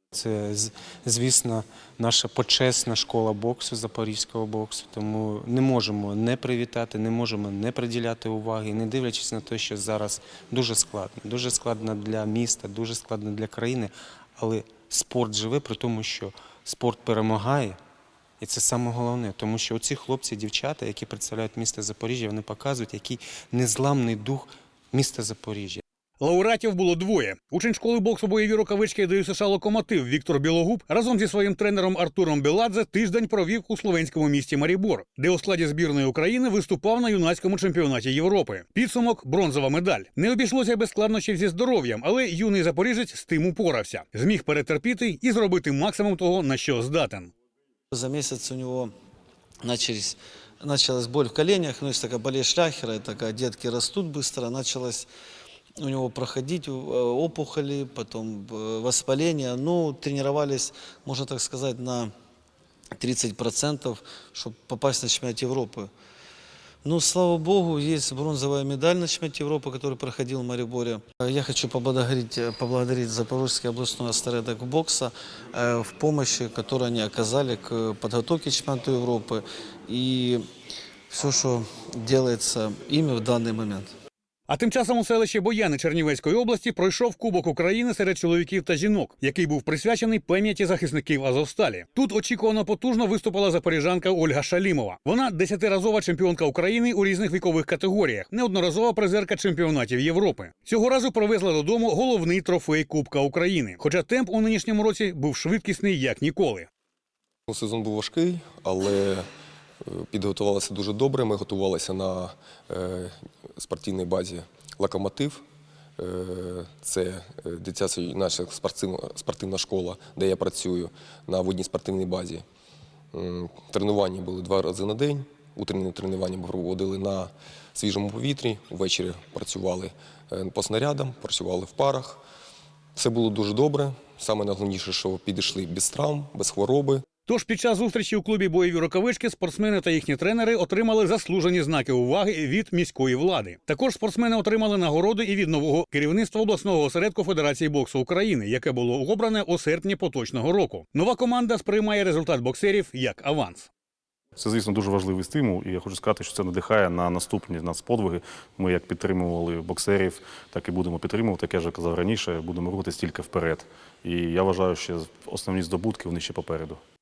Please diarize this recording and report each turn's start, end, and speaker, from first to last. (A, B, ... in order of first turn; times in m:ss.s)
0:00.1-0:17.8 A
0:18.4-0:25.8 A
0:26.2-0:47.3 B
0:47.9-0:48.9 C
0:49.6-0:55.1 C
0:55.8-1:02.1 C
1:03.0-1:05.9 C
1:06.8-1:20.4 C
1:21.1-1:23.9 C
1:24.5-1:46.7 B
1:47.5-1:49.2 D
1:49.8-1:55.4 D
1:56.0-2:02.4 D
2:03.1-2:12.2 D
2:13.0-2:17.0 D
2:17.3-2:33.7 B
2:34.4-2:46.8 E